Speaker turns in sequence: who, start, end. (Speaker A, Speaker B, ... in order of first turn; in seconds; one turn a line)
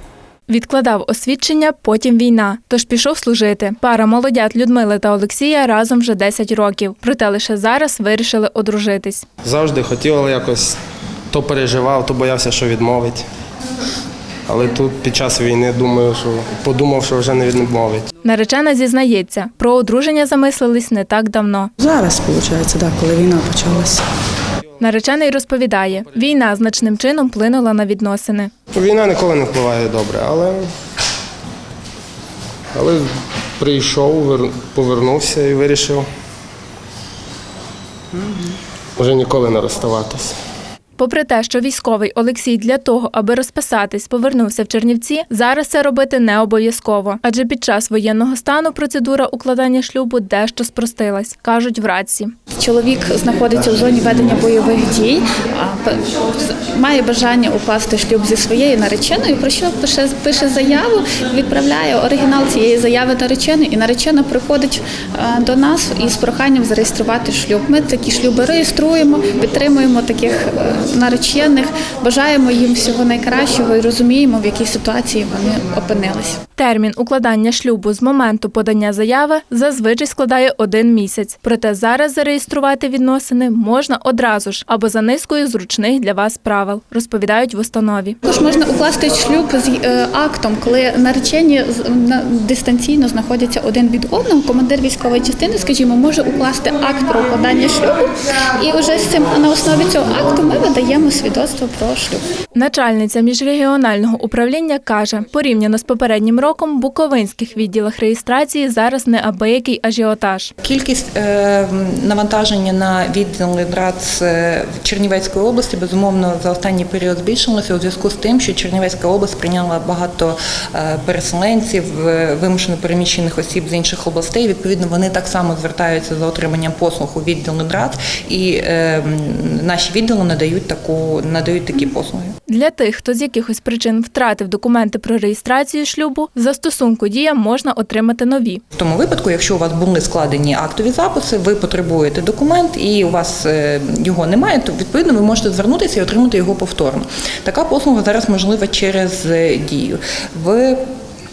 Speaker A: 0.5-9.2
Speaker B: 9.4-10.8
Speaker B: 11.3-13.3
Speaker B: 14.5-18.1
Speaker A: 18.2-21.7
Speaker C: 21.8-24.0
Speaker A: 24.8-28.5
Speaker B: 28.7-30.7
Speaker B: 32.7-33.1
Speaker B: 33.6-36.1
Speaker B: 39.0-40.4
Speaker A: 41.0-52.3
Speaker D: 52.6-76.4
Speaker A: 76.6-88.2
Speaker D: 88.2-102.2
Speaker A: 102.5-110.5
Speaker E: 110.6-132.3
Speaker A: 132.5-138.6
Speaker E: 138.8-150.8